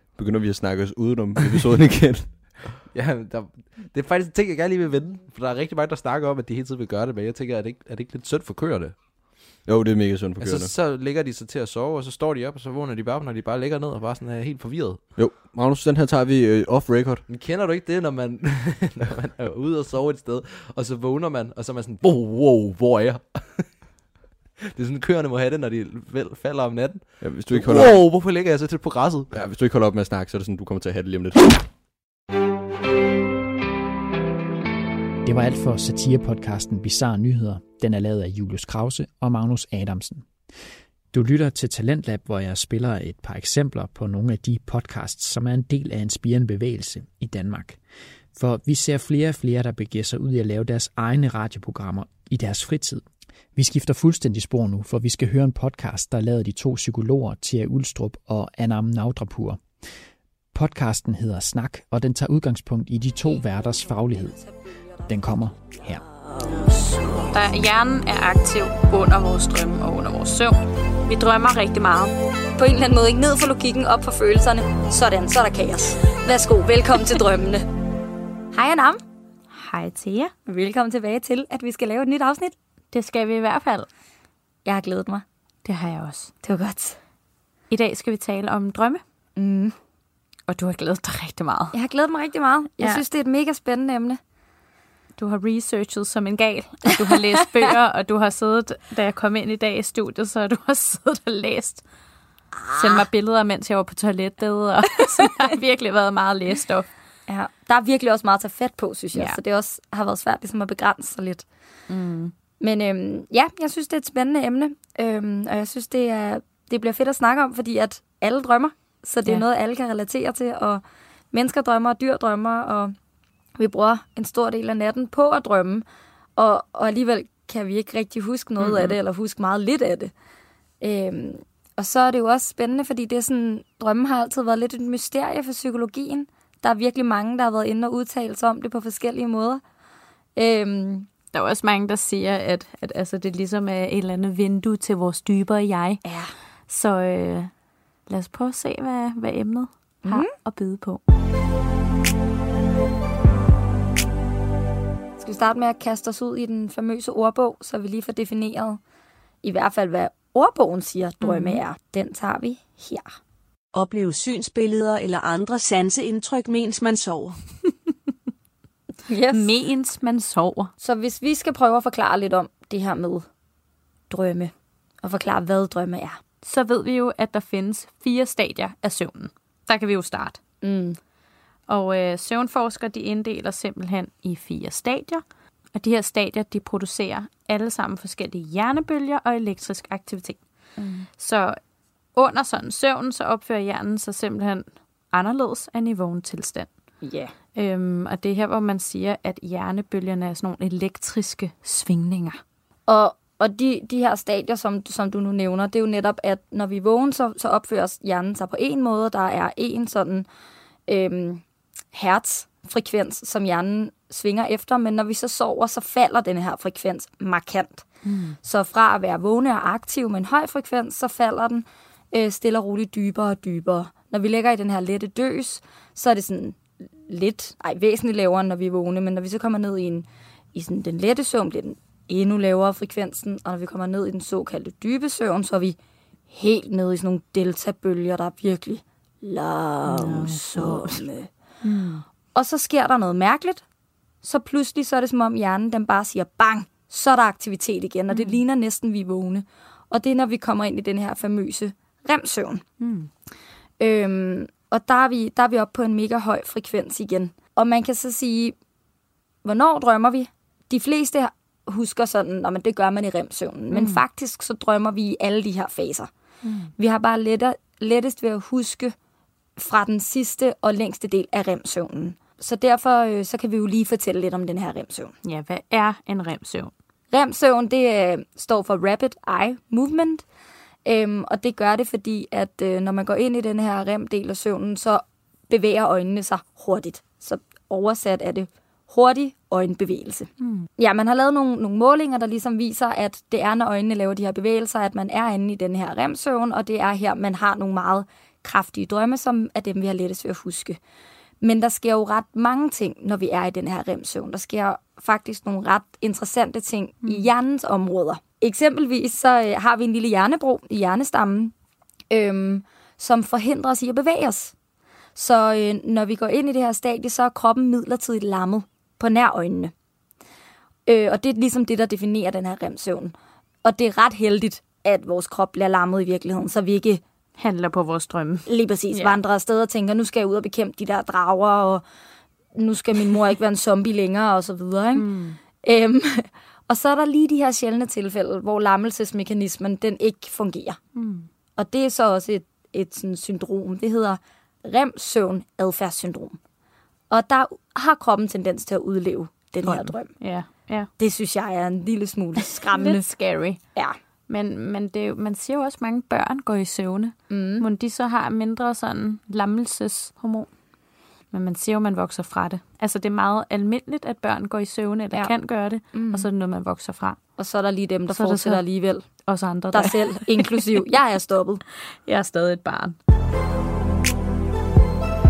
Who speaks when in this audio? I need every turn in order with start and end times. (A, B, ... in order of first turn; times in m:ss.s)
0:00.1-0:02.6 A
0:02.8-0:09.0 B
0:09.6-0:10.7 A
0:10.4-0:15.0 B
0:15.2-0:17.2 A
0:17.3-0:23.7 B
0:24.7-0:29.4 B
0:27.2-0:28.0 A
0:29.3-0:31.6 A
0:35.2-0:40.2 C
0:41.1-0:47.8 C
0:48.3-0:53.0 C
0:53.6-0:59.6 C
1:00.5-1:04.4 C
1:05.1-1:06.0 C
1:07.2-1:12.1 D
1:12.6-1:17.6 E
1:18.5-1:19.0 E
1:19.5-1:20.3 D
1:20.4-1:22.5 E
1:22.9-1:23.9 D
1:24.6-1:25.2 E
1:25.6-1:26.3 D
1:26.4-1:27.0 E
1:27.7-1:29.0 D
1:29.4-1:29.7 E
1:30.5-1:31.7 D
1:31.7-1:34.2 E
1:32.8-1:33.0 D
1:35.2-1:41.8 D
1:42.5-1:43.0 E
1:42.8-1:46.9 D
1:47.3-1:51.4 E
1:49.1-1:49.4 D
1:51.9-1:52.3 D
1:52.6-2:02.9 E
2:03.6-2:05.8 E
2:06.4-2:10.1 E
2:08.6-2:09.0 D
2:10.8-2:19.6 E
2:20.4-2:21.1 E
2:21.3-2:26.0 D
2:26.7-2:27.5 D
2:28.1-2:31.0 D
2:30.0-2:30.3 E
2:35.2-2:38.8 E
2:39.4-2:43.1 E
2:41.2-2:41.6 D
2:43.7-2:47.4 F
2:49.1-2:49.5 E
2:49.3-2:50.7 D
2:50.8-2:53.2 E
2:54.1-2:54.5 E
2:55.0-2:56.2 E
2:56.4-3:00.4 D
3:00.6-3:01.0 E
3:01.7-3:05.2 D
3:05.7-3:10.4 D
3:10.8-3:11.0 E
3:11.1-3:11.6 D
3:12.1-3:16.7 D
3:17.0-3:17.3 E
3:17.5-3:22.4 D
3:22.9-3:30.3 E
3:30.9-3:37.8 E
3:38.0-3:38.4 D
3:38.4-3:55.8 E
3:56.3-4:01.3 E
3:59.9-4:01.0 D
4:01.6-4:02.0 D
4:02.3-4:03.6 E
4:04.2-4:12.6 E
4:08.1-4:08.4 D
4:12.8-4:13.1 D
4:13.8-4:18.6 E
4:19.4-4:26.1 E
4:23.7-4:24.0 D
4:26.4-4:26.7 D
4:26.8-4:28.9 E
4:29.6-4:35.1 E
4:35.2-4:36.7 D
4:37.1-4:40.2 E
4:40.8-5:00.8 E
4:50.4-4:50.7 D
5:01.4-5:11.5 E
5:07.0-5:07.3 D
5:12.1-5:14.5 E
5:15.1-5:19.7 E
5:20.9-5:27.0 E
5:27.4-5:29.2 D
5:28.5-5:31.8 E
5:32.5-5:40.8 E
5:34.9-5:35.4 D
5:40.9-5:41.3 D
5:41.6-5:46.4 E
5:47.1-5:50.2 E
5:49.6-5:50.9 D
5:51.0-5:53.0 E
5:52.5-5:53.6 D
5:54.3-6:00.5 D
5:57.3-5:57.6 E
6:01.3-6:07.2 D
6:05.9-6:06.3 E
6:07.4-6:09.1 E
6:08.1-6:08.6 D
6:09.2-6:10.6 D
6:09.7-6:11.6 E
6:12.0-6:13.0 D